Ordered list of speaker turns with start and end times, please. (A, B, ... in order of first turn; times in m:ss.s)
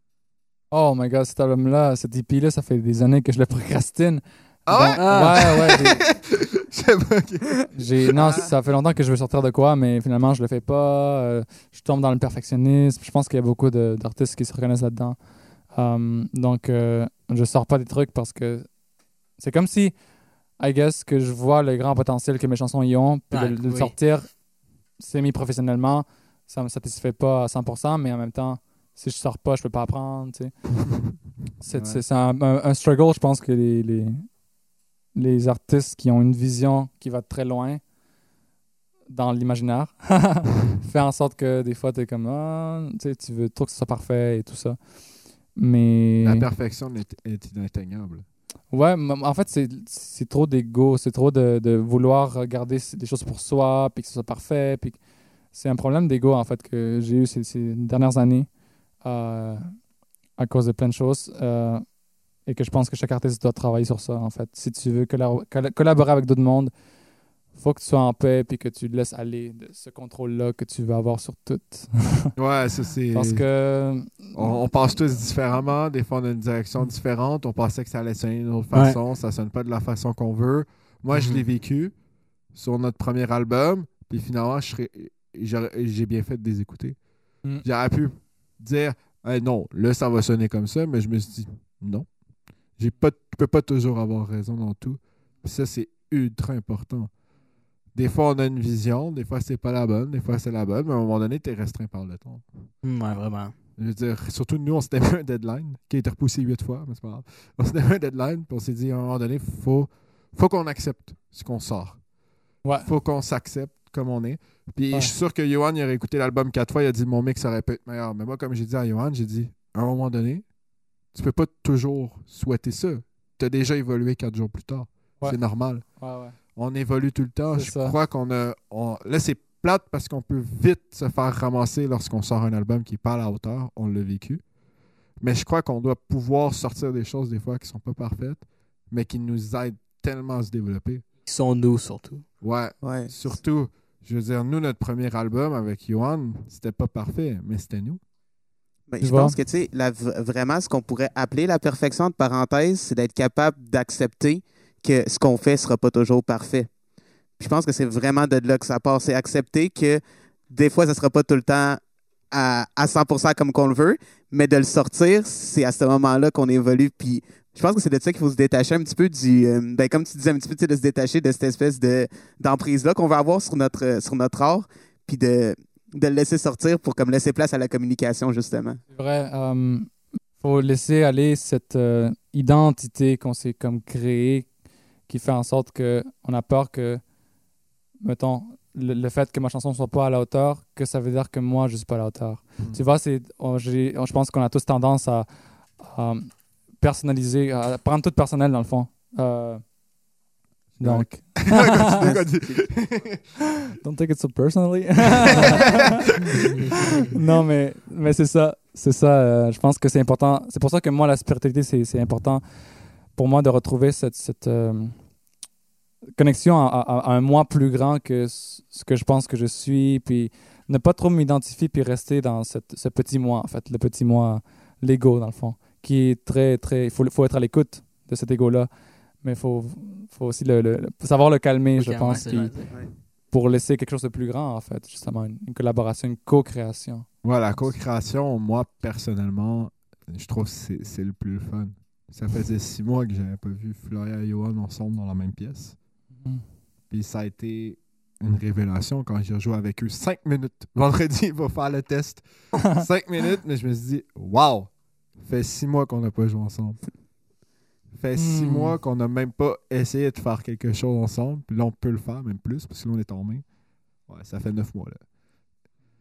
0:00.7-0:06.0 A
0:04.7-0:08.5 B
0:05.0-0:05.8 C
0:07.8-0:18.8 A
0:19.4-0:20.0 A
0:20.6-0:24.4 A
0:23.3-0:24.0 C
0:25.0-0:30.6 A
0:31.6-0:34.3 A
0:31.7-0:32.0 C
0:35.1-0:37.8 A
0:39.1-0:44.8 A
0:45.5-0:46.5 A
0:46.2-0:48.2 B
0:48.7-0:55.0 A
0:55.5-0:58.5 A
0:59.0-0:59.7 A
1:00.4-1:06.7 A
1:07.5-1:12.3 A
1:12.4-1:13.5 B
1:13.1-1:14.6 A
1:14.3-1:21.9 B
1:18.7-1:19.0 C
1:21.1-1:21.4 C
1:22.5-1:27.0 B
1:27.6-1:32.1 B
1:32.8-1:37.1 B
1:38.0-1:42.5 B
1:42.8-1:43.5 C
1:43.8-1:52.0 B
1:52.6-1:52.9 A
1:52.8-2:00.4 B
2:01.1-2:05.8 B
2:06.0-2:06.4 A
2:06.6-2:14.4 B
2:07.6-2:08.0 A
2:15.2-2:21.0 B
2:21.2-2:22.2 C
2:22.4-2:28.0 B
2:22.8-2:23.1 D
2:28.9-2:36.7 D
2:29.0-2:29.4 A
2:37.4-2:58.8 D
2:58.9-3:04.5 A
3:05.1-3:07.0 A
3:08.0-3:19.7 A
3:20.8-3:22.1 A
3:20.8-3:23.2 B
3:21.5-3:22.7 D
3:23.8-3:25.9 A
3:26.6-3:27.0 C
3:26.9-3:32.4 A
3:33.1-3:35.0 A
3:36.2-3:48.7 A
3:49.2-3:52.6 A
3:51.8-3:52.7 C
3:53.3-3:57.7 A
3:57.2-4:05.8 B
4:06.9-4:16.8 B
4:18.0-4:23.4 B
4:18.2-4:18.8 A
4:24.1-4:25.0 B